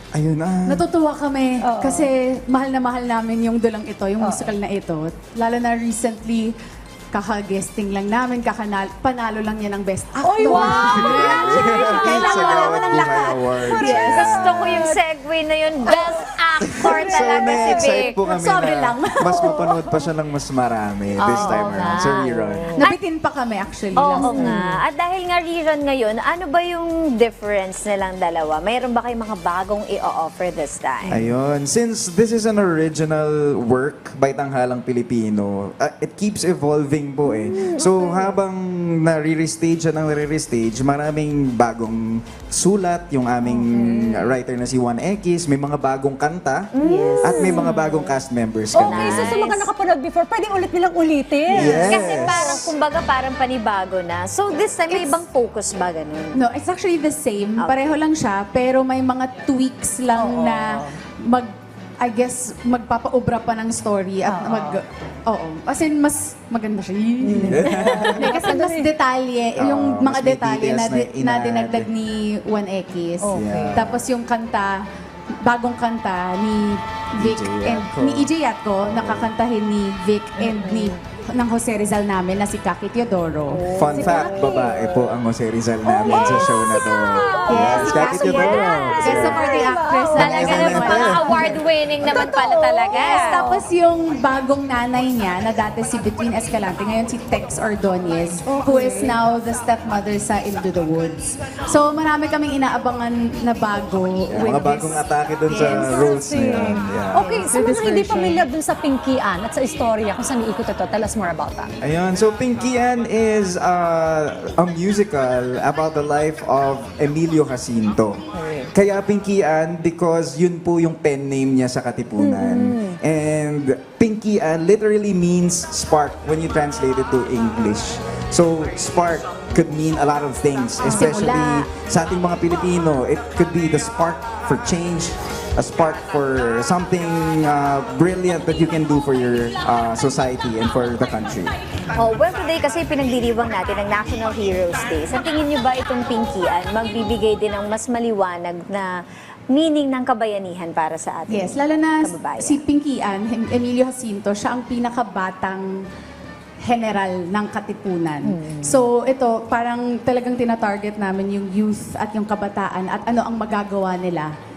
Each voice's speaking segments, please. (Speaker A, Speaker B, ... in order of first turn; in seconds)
Speaker A: 0.1-0.8, 10.6-14.8, 16.6-22.7, 31.1-46.7, 47.2-49.4, 51.5-52.7, 67.4-68.3, 69.5-71.9, 73.3-74.0, 77.2-78.3, 78.8-79.3, 83.7-89.5, 90.1-91.6, 104.3-107.3, 111.8-118.2, 118.7-141.5
Speaker B: 0.7-6.5, 7.1-14.7, 16.8-19.7, 22.8-24.6, 46.8-47.5, 54.9-55.2, 56.3-61.5, 62.0-74.8, 75.4-84.7, 87.5-91.6, 92.9-106.2, 107.1-108.4, 130.8-131.7, 151.3-155.8, 156.6-164.3
Speaker C: 1.6-2.1, 4.2-4.5, 10.2-12.4, 13.9-14.9, 24.2-24.8, 37.3-38.3, 43.5-44.3, 48.7-52.6, 60.1-60.9, 64.2-64.8, 67.2-68.9, 73.2-73.8, 80.4-80.9, 86.0-87.8, 88.7-93.7, 98.5-99.2, 105.6-111.7, 118.4-118.7, 122.2-123.0, 158.2-158.8
Speaker D: 12.4-13.0, 13.7-18.2, 21.2-23.0, 23.9-31.2, 46.7-48.2, 48.7-49.7, 51.6-56.4, 57.6-58.0, 83.5-85.1, 85.9-93.4, 141.9-148.9, 149.5-152.6